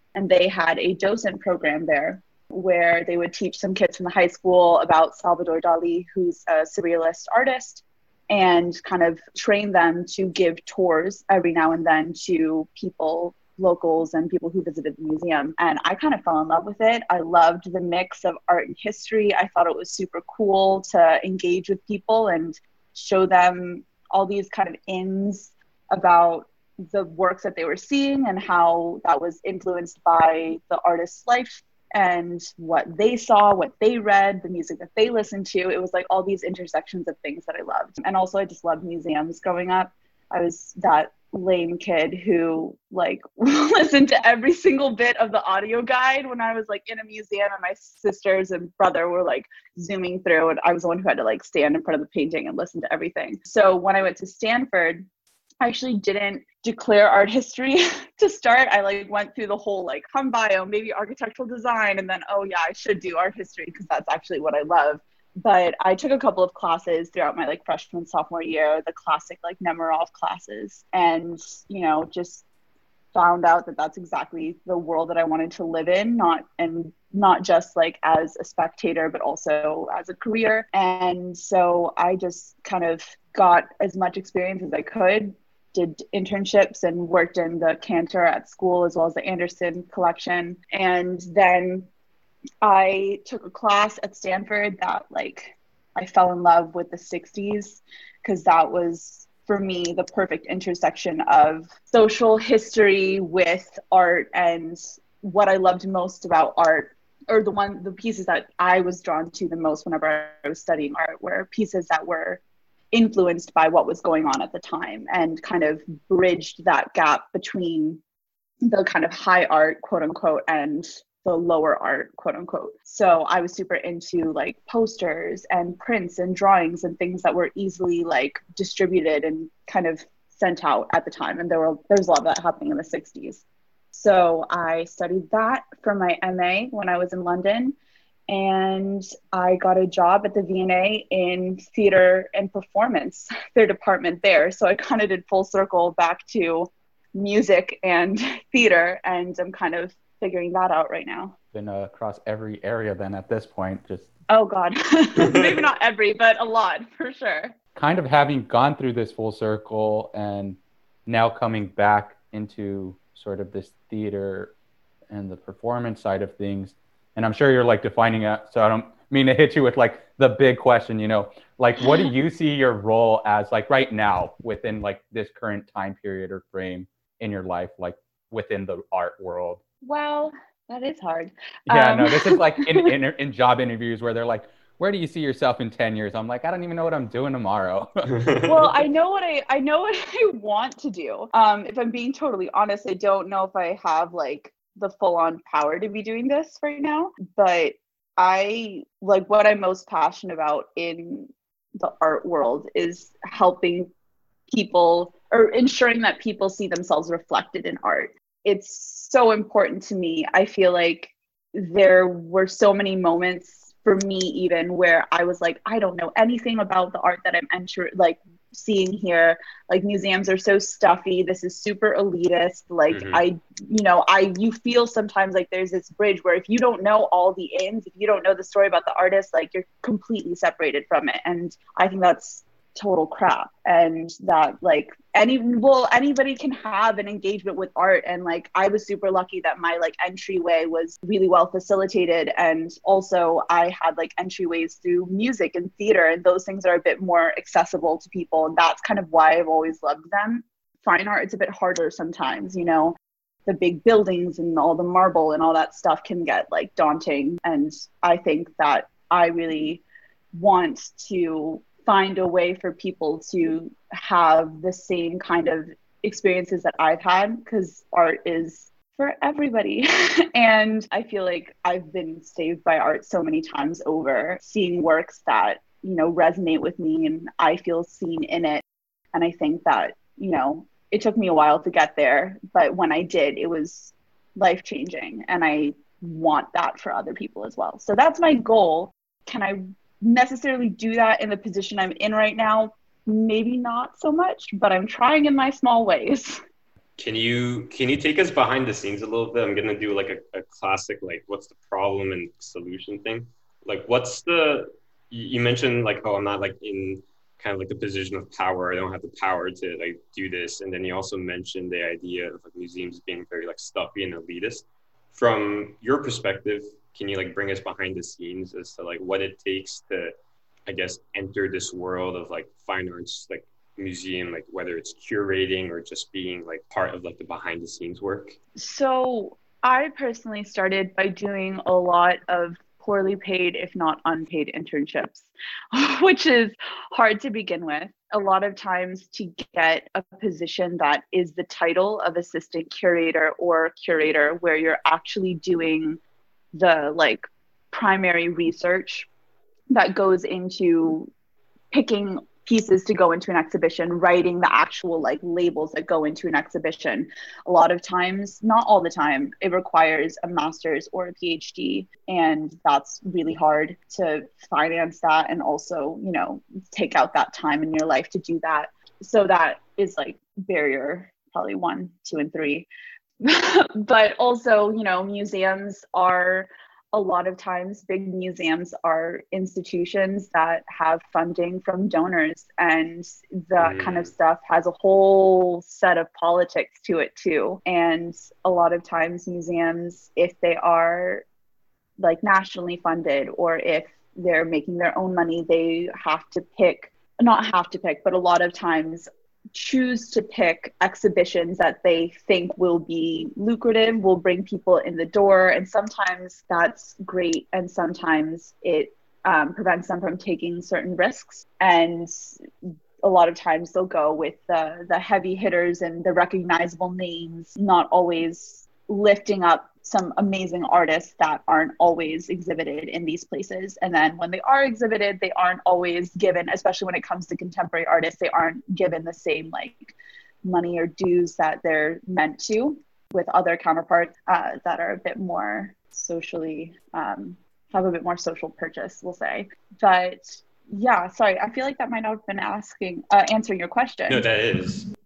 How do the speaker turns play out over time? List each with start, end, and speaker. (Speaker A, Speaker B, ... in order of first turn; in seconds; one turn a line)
Speaker A: 0.2-55.1
Speaker A: 55.6-72.4
Speaker A: 73.1-91.9
Speaker A: 92.6-112.4
Speaker A: 112.9-118.0
Speaker A: 118.7-137.8
Speaker A: 138.3-151.3
Speaker B: 151.5-154.1
Speaker A: 154.3-157.5
Speaker C: 155.2-155.6
Speaker B: 157.8-164.5
Speaker B: 165.1-179.6
Speaker A: 171.8-172.1
Speaker A: 179.8-182.9
Speaker B: 181.7-188.1
Speaker C: 188.1-188.6
Speaker A: 188.5-203.9
Speaker A: 204.5-259.8
Speaker C: 222.9-223.2
Speaker A: 260.4-278.6
Speaker A: 279.1-296.4
Speaker C: 297.0-320.1
Speaker C: 320.7-328.4
Speaker A: 328.6-346.0
Speaker A: 346.5-349.1
Speaker A: 349.7-351.1
Speaker A: 351.7-372.7
Speaker A: 373.2-391.3
Speaker C: 383.6-384.1
Speaker A: 392.0-412.1
Speaker A: 413.0-429.9
Speaker A: 430.4-444.2
Speaker C: 444.1-444.9